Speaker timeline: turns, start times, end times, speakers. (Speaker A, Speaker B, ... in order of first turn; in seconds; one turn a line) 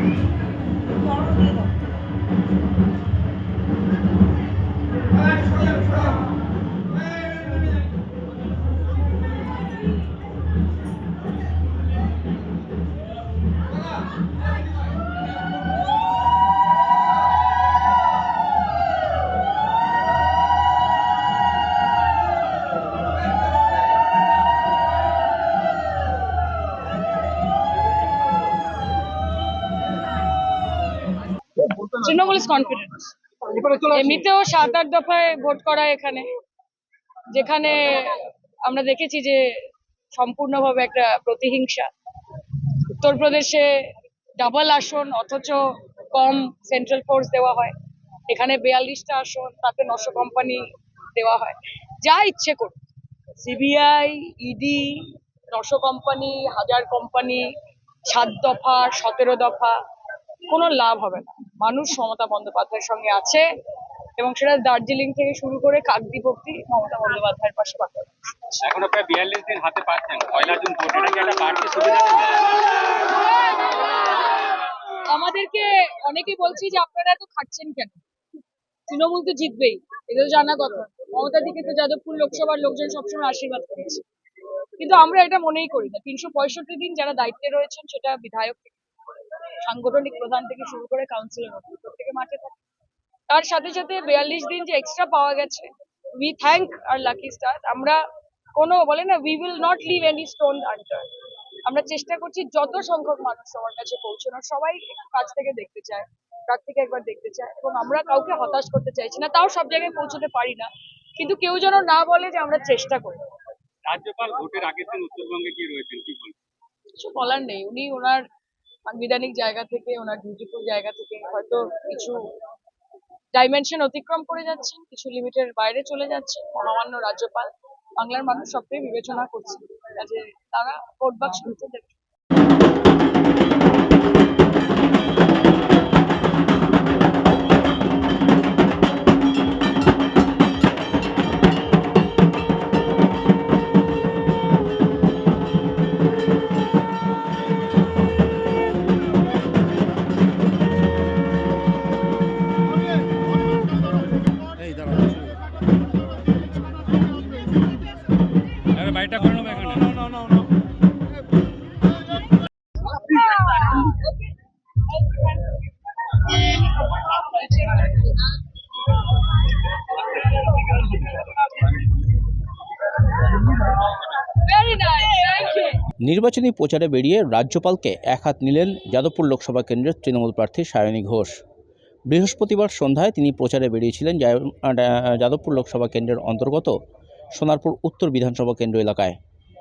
Speaker A: 31.6-36.3
Speaker A: 37.3-39.4
Speaker A: 40.1-41.9
Speaker A: 42.8-43.7
Speaker A: 44.4-47.7
Speaker A: 48.3-52.8
Speaker A: 53.4-57.4
Speaker A: 58.0-59.8
Speaker A: 60.4-63.4
Speaker A: 64.2-68.6
Speaker B: 68.6-72.5
Speaker A: 73.8-78.0
Speaker A: 78.9-84.0
Speaker A: 84.8-88.8
Speaker A: 89.6-92.6
Speaker A: 93.3-98.0
Speaker A: 98.6-101.1
Speaker A: 101.6-113.3
Speaker B: 113.8-116.3
Speaker A: 117.0-118.2
Speaker A: 118.9-122.2
Speaker A: 123.3-132.0
Speaker B: 158.8-159.9
Speaker A: 162.9-164.1
Speaker A: 165.0-165.5
Speaker A: 166.2-168.2
Speaker A: 173.3-175.8
Speaker C: 176.0-181.4
Speaker C: 182.1-186.8
Speaker C: 187.3-189.2